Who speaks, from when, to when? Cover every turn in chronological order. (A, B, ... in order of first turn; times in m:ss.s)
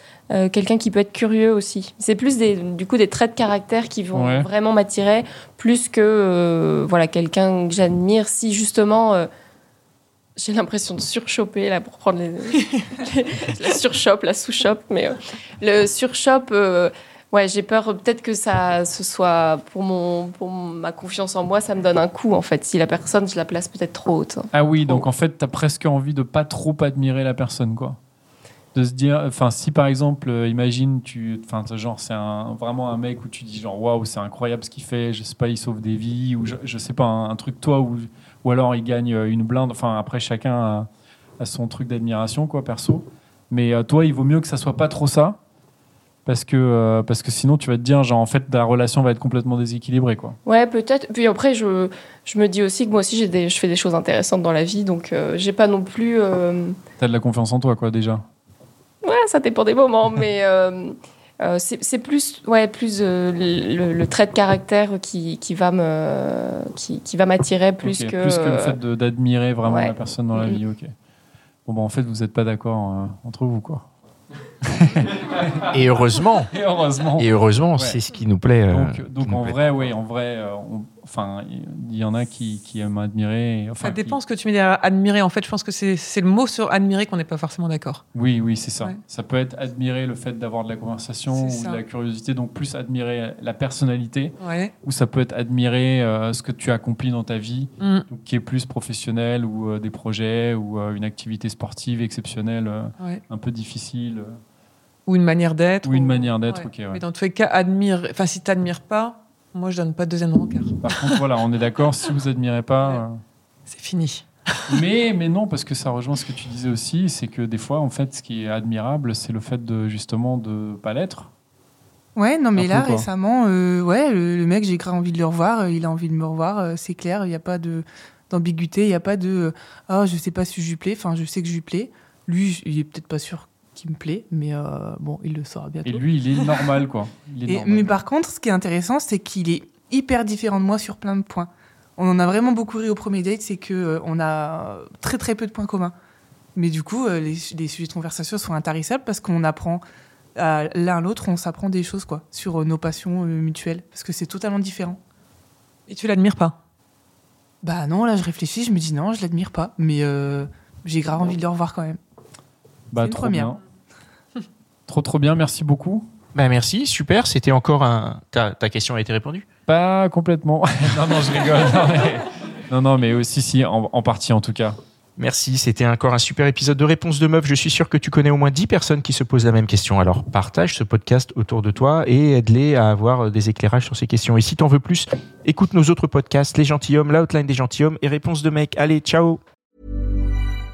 0:00.3-0:09.3 A
0:10.4-0:25.1 A
0:24.5-0:28.0 B
0:28.8-0:40.9 B
0:41.4-0:45.4 B
0:46.3-0:50.4 B
0:50.5-0:56.8 A
0:57.0-0:58.2 B
0:59.0-1:08.8 A
1:07.8-1:10.9 B
1:09.6-1:10.6 A
1:11.7-1:13.9 B
1:14.7-1:15.5 B
1:15.7-1:16.5 C
1:16.5-1:18.0 B
1:17.2-1:19.7 C
1:18.7-1:24.2 B
1:23.8-1:28.0 D
1:28.1-1:44.4 B
1:31.3-1:31.8 D
1:34.4-1:34.7 D
1:37.8-1:38.1 D
1:45.1-1:51.2 D
1:45.9-1:47.0 B
1:50.9-1:53.2 B
1:53.7-1:54.8 D
1:54.7-2:01.3 B
2:02.2-2:16.8 E
2:02.6-2:03.1 B
2:15.9-2:17.9 B
2:17.4-2:25.9 E
2:26.6-2:29.8 E
2:30.4-2:35.0 E
2:35.9-2:36.6 D
2:37.6-2:42.0 E
2:42.9-2:43.6 B
2:43.0-2:43.6 E
2:44.9-2:46.1 B
2:46.4-2:49.4 C
2:49.7-2:54.8 B
2:55.2-3:09.4 C